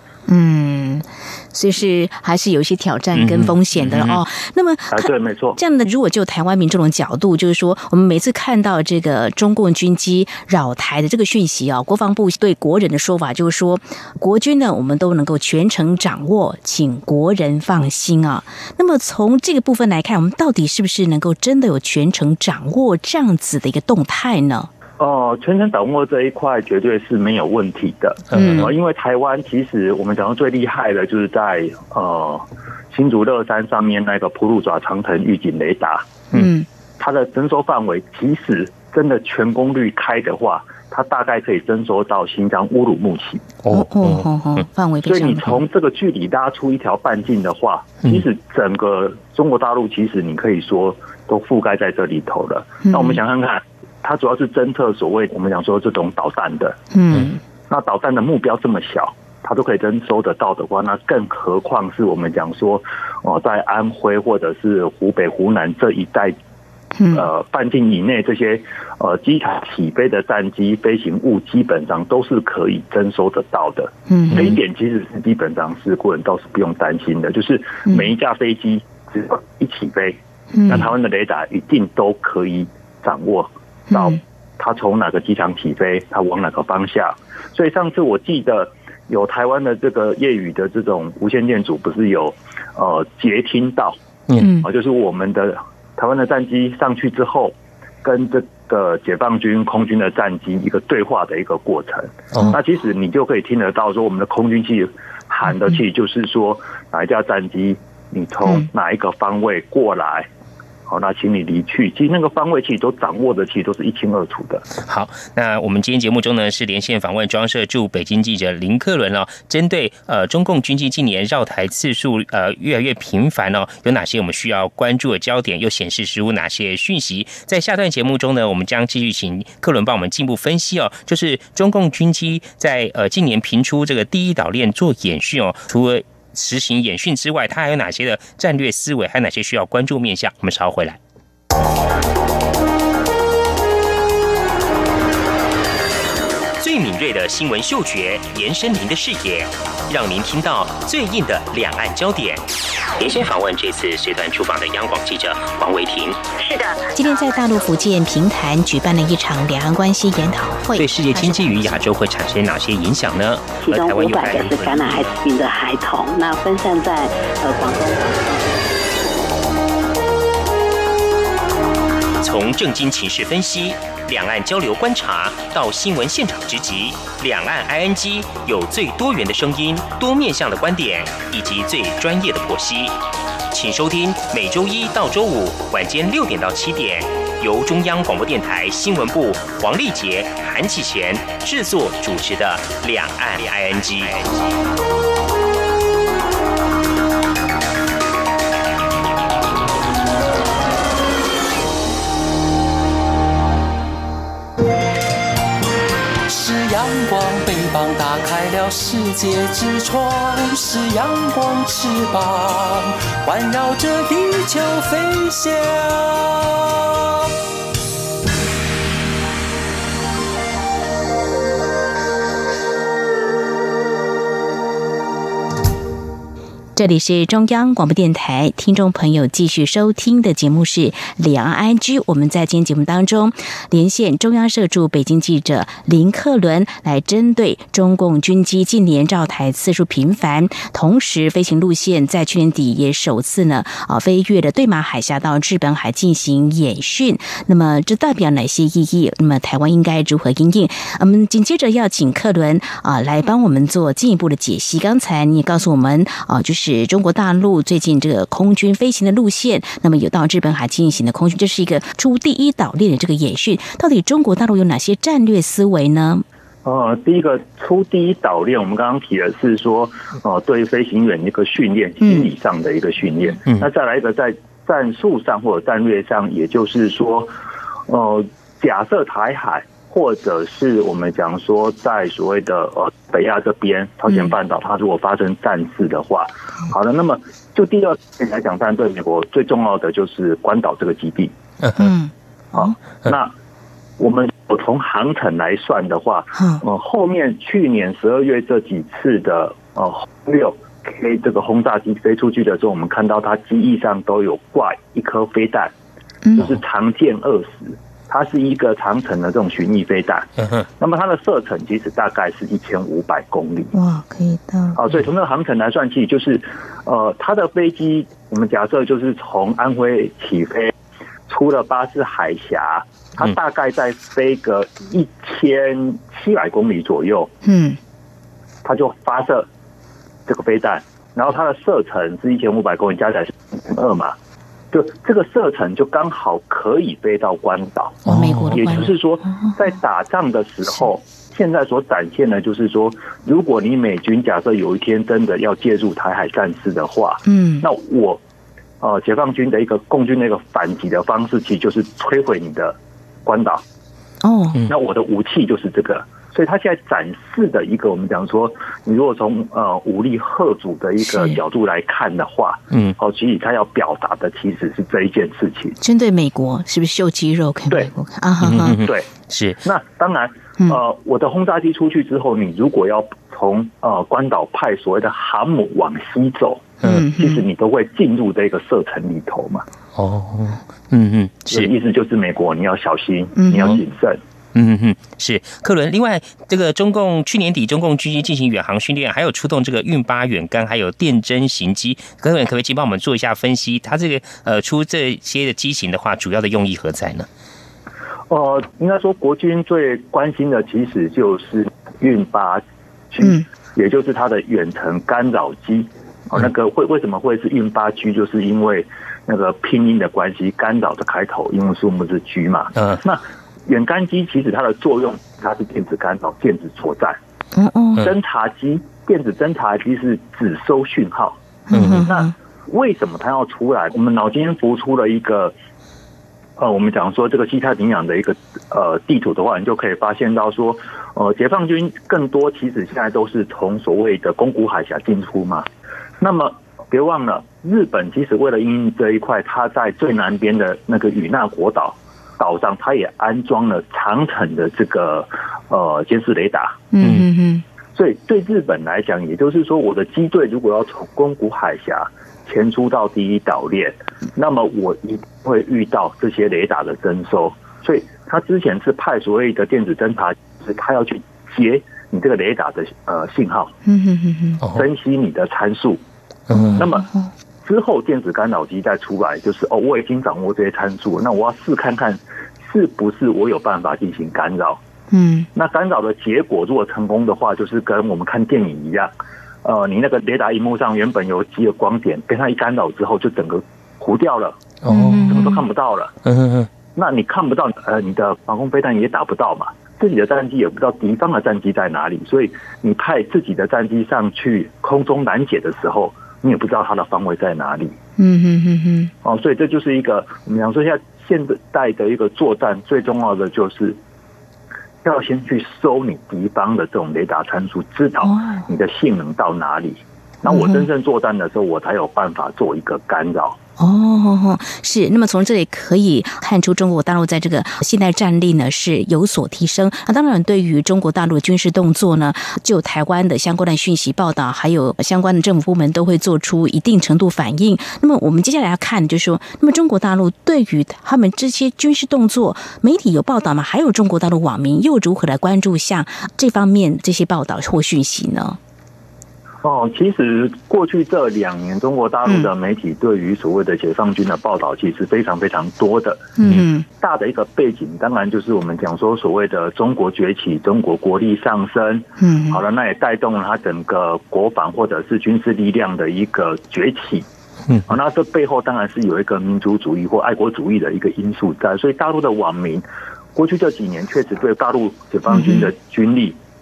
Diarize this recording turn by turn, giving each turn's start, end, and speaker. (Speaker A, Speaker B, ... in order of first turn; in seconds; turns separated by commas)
Speaker A: 0.3-24.7, Speaker B: 3.1-4.2, Speaker C: 4.9-5.6, Speaker C: 25.0-36.2, Speaker B: 28.3-28.7, Speaker A: 28.3-28.7, Speaker A: 36.3-36.6, Speaker C: 37.0-43.5, Speaker B: 43.6-44.2, Speaker A: 43.7-45.6, Speaker C: 45.0-56.8, Speaker A: 52.8-53.2, Speaker A: 56.9-57.4, Speaker C: 57.7-66.3, Speaker A: 67.0-67.2, Speaker C: 67.1-94.0, Speaker A: 74.1-74.5, Speaker A: 80.5-80.9, Speaker A: 83.9-84.2, Speaker A: 94.4-94.7, Speaker C: 94.6-110.3, Speaker C: 110.9-114.7, Speaker B: 114.8-141.0, Speaker B: 146.6-152.4, Speaker B: 153.0-156.2, Speaker D: 156.4-156.9, Speaker A: 156.9-161.7, Speaker B: 160.8-165.1, Speaker D: 163.6-168.6, Speaker B: 172.2-183.0, Speaker B: 183.5-194.3, Speaker E: 206.3-217.3, Speaker A: 226.8-266.2, Speaker C: 266.6-277.3, Speaker A: 272.0-272.3, Speaker C: 277.9-291.3, Speaker B: 291.6-291.9, Speaker A: 291.8-292.7, Speaker C: 292.5-293.3, Speaker C: 294.0-305.7, Speaker A: 296.4-296.6, Speaker A: 306.2-306.6, Speaker C: 306.4-313.7, Speaker A: 313.7-314.8, Speaker C: 314.8-320.7, Speaker C: 321.3-327.3, Speaker A: 327.4-327.8, Speaker C: 328.6-329.5, Speaker C: 330.3-334.1, Speaker C: 334.7-348.2, Speaker A: 338.1-338.9, Speaker B: 338.1-338.6, Speaker A: 347.2-347.7, Speaker C: 348.8-353.6, Speaker A: 354.2-354.6, Speaker C: 354.7-365.8, Speaker A: 361.0-361.4, Speaker A: 365.8-368.8, Speaker B: 368.4-369.6, Speaker C: 368.8-369.1, Speaker C: 369.6-379.6, Speaker A: 376.8-377.4, Speaker B: 379.9-381.7, Speaker C: 381.5-384.2, Speaker A: 383.4-383.8, Speaker B: 384.5-397.3, Speaker C: 398.3-417.2, Speaker A: 417.5-418.1, Speaker C: 418.0-421.4, Speaker A: 421.7-422.3, Speaker B: 421.7-422.0, Speaker C: 422.1-425.5, Speaker C: 426.6-435.6, Speaker C: 436.2-446.9, Speaker A: 446.9-447.6, Speaker C: 447.9-463.7, Speaker A: 463.9-464.6, Speaker C: 464.6-466.0, Speaker B: 466.5-466.8, Speaker A: 466.5-467.3, Speaker C: 466.8-467.1, Speaker C: 467.6-474.8, Speaker A: 475.1-475.5, Speaker C: 475.5-479.1, Speaker C: 479.6-484.6, Speaker B: 484.8-485.4, Speaker A: 484.9-485.6, Speaker C: 485.3-486.1, Speaker B: 486.2-486.7, Speaker C: 486.9-497.9, Speaker A: 498.2-499.1, Speaker C: 499.2-504.0, Speaker C: 505.0-513.6, Speaker A: 508.2-508.6, Speaker A: 510.4-510.9, Speaker A: 513.8-538.6, Speaker C: 539.6-546.3, Speaker A: 546.4-546.8, Speaker C: 547.0-557.2, Speaker A: 552.2-552.6, Speaker C: 557.8-562.8, Speaker C: 563.3-566.4, Speaker A: 565.3-565.7